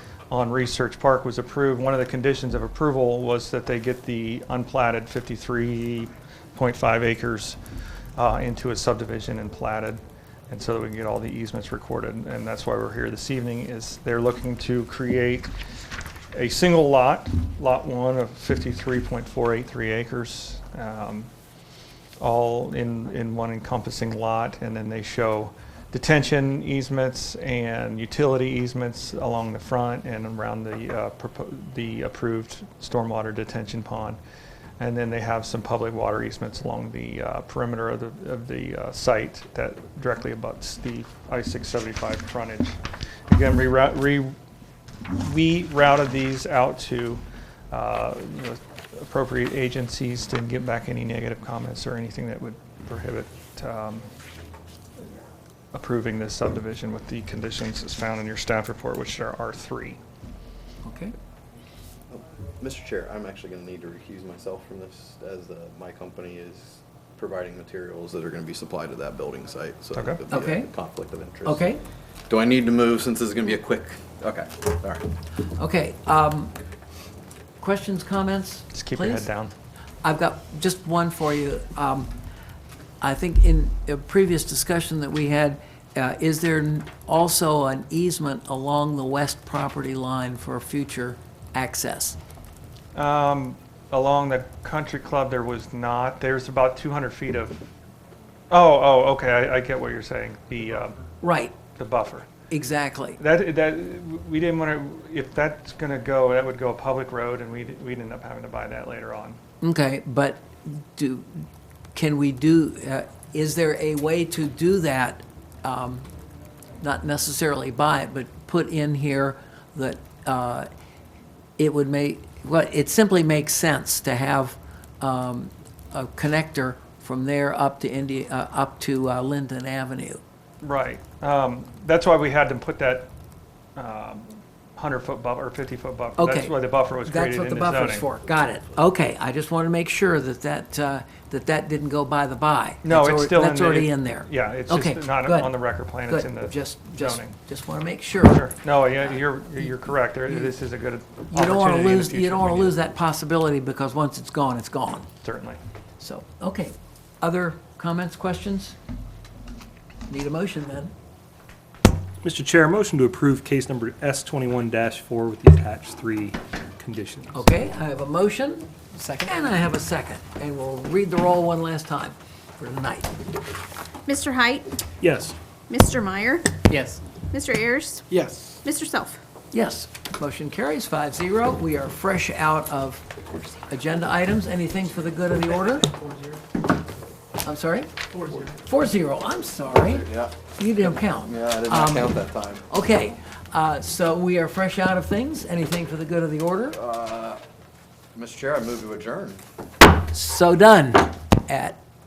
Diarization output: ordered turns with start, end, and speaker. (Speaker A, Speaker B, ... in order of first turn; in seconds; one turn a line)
Speaker A: 0.3-7.6
Speaker A: 8.2-15.5
Speaker A: 16.3-21.3
Speaker A: 22.2-34.2
Speaker A: 34.8-44.4
Speaker A: 45.1-54.1
Speaker A: 55.7-60.0
Speaker B: 60.8-61.1
Speaker C: 62.1-71.7
Speaker A: 70.0-70.2
Speaker B: 70.3-70.7
Speaker B: 71.5-71.8
Speaker C: 72.3-75.1
Speaker B: 75.6-76.5
Speaker B: 77.6-79.3
Speaker A: 78.7-79.5
Speaker B: 80.0-82.1
Speaker B: 83.0-92.2
Speaker A: 93.0-97.7
Speaker A: 98.5-101.0
Speaker B: 101.2-101.5
Speaker A: 101.8-102.3
Speaker B: 102.5-103.2
Speaker A: 103.2-109.4
Speaker B: 109.6-116.1
Speaker B: 116.8-120.7
Speaker B: 121.6-130.2
Speaker A: 130.6-133.1
Speaker A: 133.8-138.1
Speaker B: 136.2-148.5
Speaker A: 142.8-147.4
Speaker A: 148.2-152.8
Speaker B: 151.3-155.1
Speaker A: 155.2-155.6
Speaker B: 156.0-158.8
Speaker B: 160.1-160.9
Speaker D: 162.2-167.5
Speaker B: 167.3-173.2
Speaker E: 174.1-174.7
Speaker D: 175.0-175.4
Speaker E: 175.7-176.6
Speaker B: 176.7-177.0
Speaker E: 177.3-178.1
Speaker D: 178.1-178.6
Speaker E: 178.6-179.2
Speaker B: 179.5-185.9
Speaker B: 187.4-192.2
Speaker C: 189.9-190.4
Speaker C: 191.2-192.6
Speaker B: 192.7-196.8
Speaker C: 196.8-197.4
Speaker C: 198.2-199.4
Speaker B: 200.1-201.8